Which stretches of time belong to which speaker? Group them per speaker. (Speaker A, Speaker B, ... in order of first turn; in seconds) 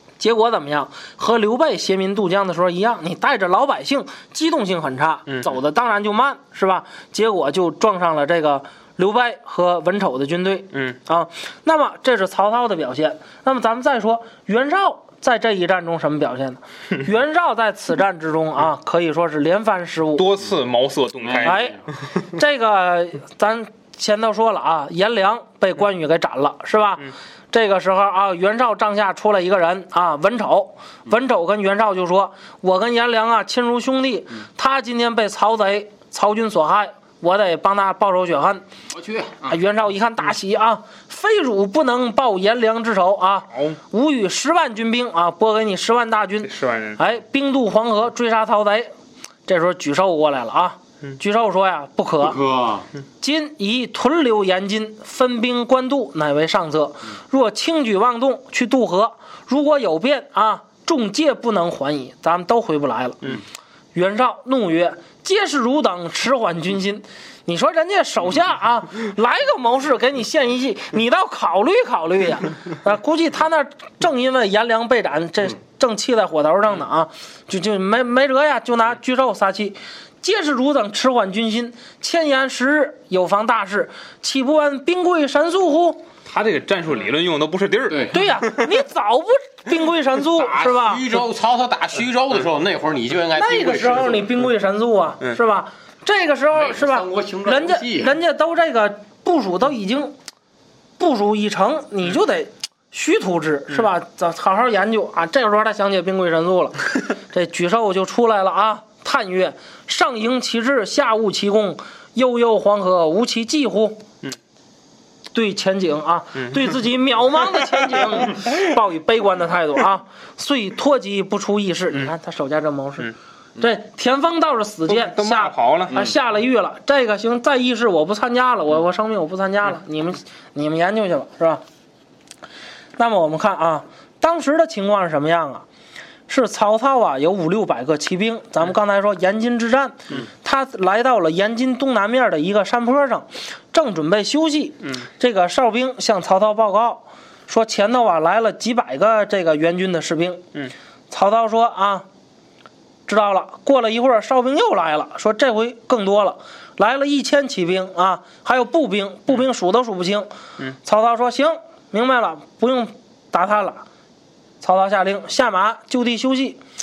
Speaker A: 0.2-20.2, 21.4-21.8, 22.3-38.6, 39.5-48.9, 49.5-52.4, 53.2-63.3, 63.9-86.0, 88.1-91.0, 93.3-100.2, 101.0-114.0, 115.3-131.6, 133.0-135.6, 136.3-150.4, 151.1-152.1, 153.1-160.3, 160.8-163.8, 164.6-166.6
Speaker B: 20.1-21.6, 46.4-47.0, 86.2-88.6, 124.9-126.0
Speaker C: 21.2-21.8, 38.9-39.6, 52.2-52.9, 87.9-88.2, 90.3-94.3, 96.5-98.1